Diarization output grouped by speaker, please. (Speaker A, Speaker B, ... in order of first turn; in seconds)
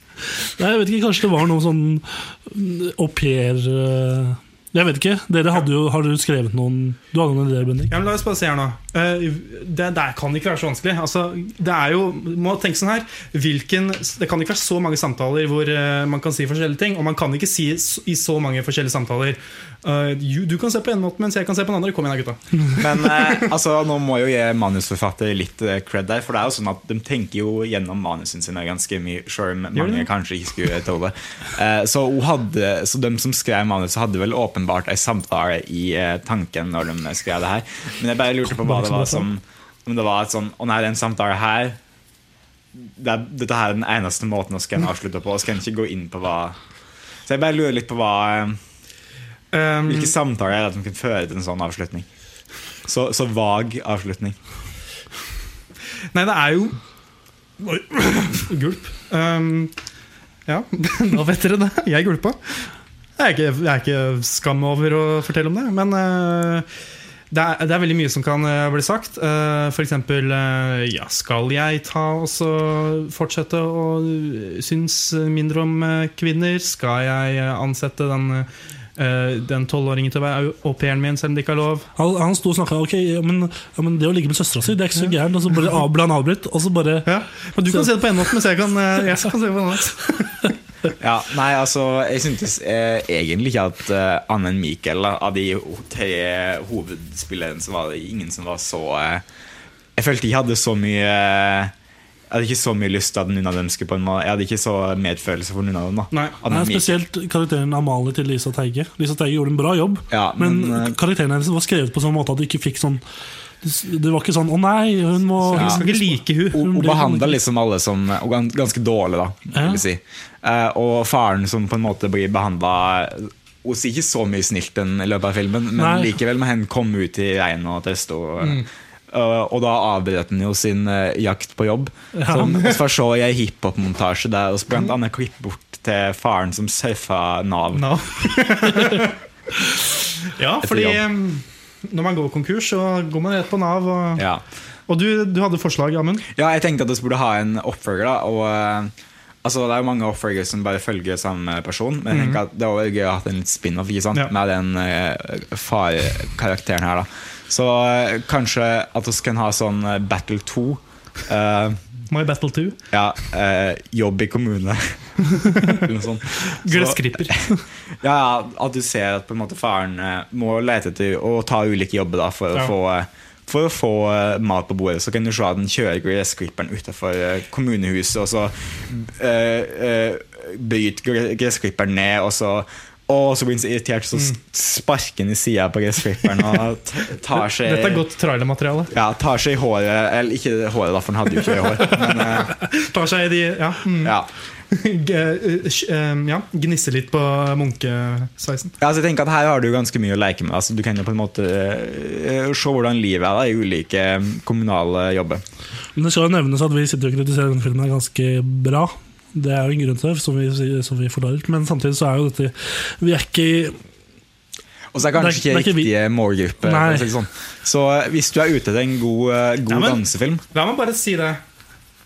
Speaker A: 0.4-7.9, 38.5-39.3, 82.0-87.1, 106.5-113.0, 113.6-117.4, 119.5-119.8, 125.8-126.2, 132.2-132.5, 206.0-213.8, 215.2-215.9, 216.6-217.1
Speaker B: 7.9-23.4, 29.8-30.1, 49.5-50.1, 56.1-56.8, 57.6-59.7, 60.5-66.7, 67.3-81.9, 87.1-90.5, 115.4-116.7, 132.4-132.8, 137.7-139.1, 140.4-144.2, 144.9-146.3, 152.1-152.4, 162.1-162.8, 165.5-165.8, 166.6-167.5, 187.5-188.9, 191.8-194.2, 194.7-198.7, 220.5-221.4
Speaker C: 22.8-41.8, 42.8-46.6, 47.3-48.6, 49.9-52.1, 52.9-54.4, 91.0-99.2, 100.0-101.7, 102.3-107.0, 110.1-111.0, 115.6-115.8, 116.5-137.9, 140.6-141.0, 144.2-144.4, 146.3-148.9, 149.4-161.8, 162.9-167.4, 168.0-188.0, 188.9-192.5, 194.0-194.3, 198.8-205.4, 214.9-220.4